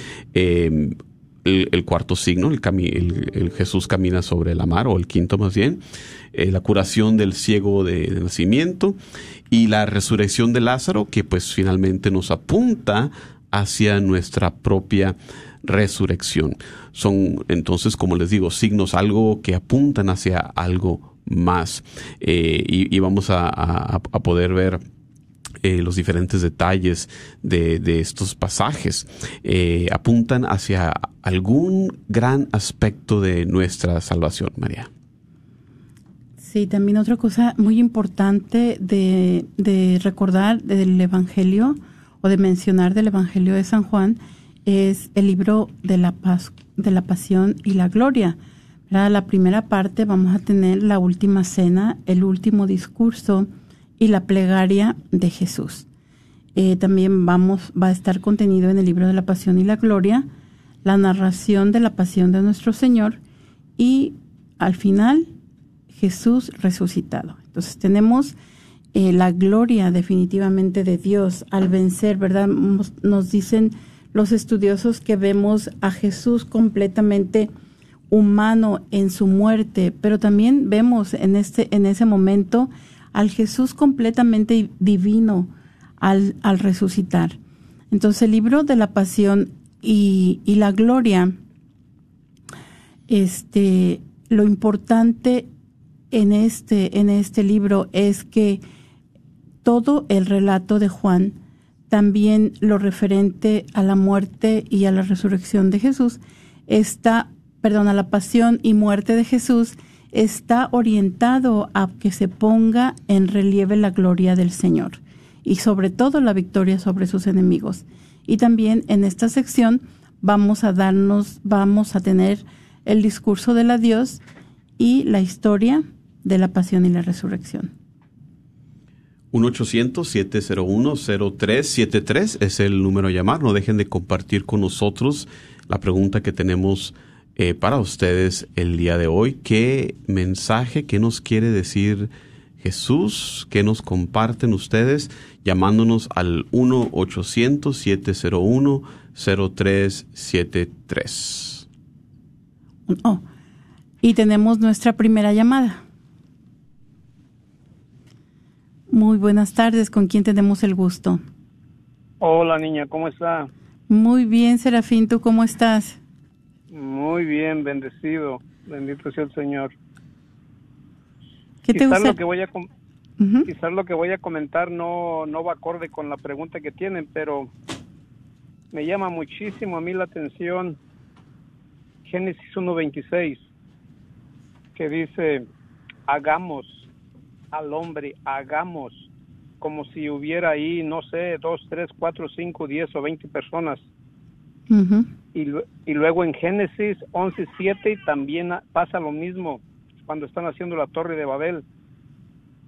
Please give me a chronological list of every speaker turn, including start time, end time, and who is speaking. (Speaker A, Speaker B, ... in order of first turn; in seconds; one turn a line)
Speaker A: 0.3-5.8
Speaker A: 6.3-9.0
Speaker A: 9.5-24.8
Speaker A: 25.6-34.9
Speaker B: 36.4-48.4
Speaker B: 48.9-53.5
Speaker B: 54.0-55.9
Speaker B: 56.5-60.3
Speaker B: 60.8-63.2
Speaker B: 63.8-65.3
Speaker B: 65.9-68.3
Speaker B: 68.9-77.5
Speaker B: 78.1-87.3
Speaker B: 87.9-91.4
Speaker B: 93.1-95.5
Speaker B: 96.1-98.6
Speaker B: 99.6-101.4
Speaker B: 101.9-124.2
Speaker B: 124.8-127.7
Speaker A: 129.3-151.7
Speaker B: 152.9-153.2
Speaker B: 154.0-155.8
Speaker B: 158.9-161.2
Speaker C: 162.2-163.5
Speaker B: 163.9-166.0
Speaker C: 166.7-169.7
Speaker B: 171.7-172.2
Speaker C: 171.7-172.7
Speaker B: 173.2-173.5
Speaker C: 173.5-177.5
Speaker C: 178.7-180.8
Speaker C: 182.1-183.5
Speaker C: 184.8-185.4
Speaker C: 186.1-186.9
Speaker C: 187.5-189.1
Speaker C: 189.6-193.8
Speaker B: 194.7-195.1
Speaker C: 195.3-201.6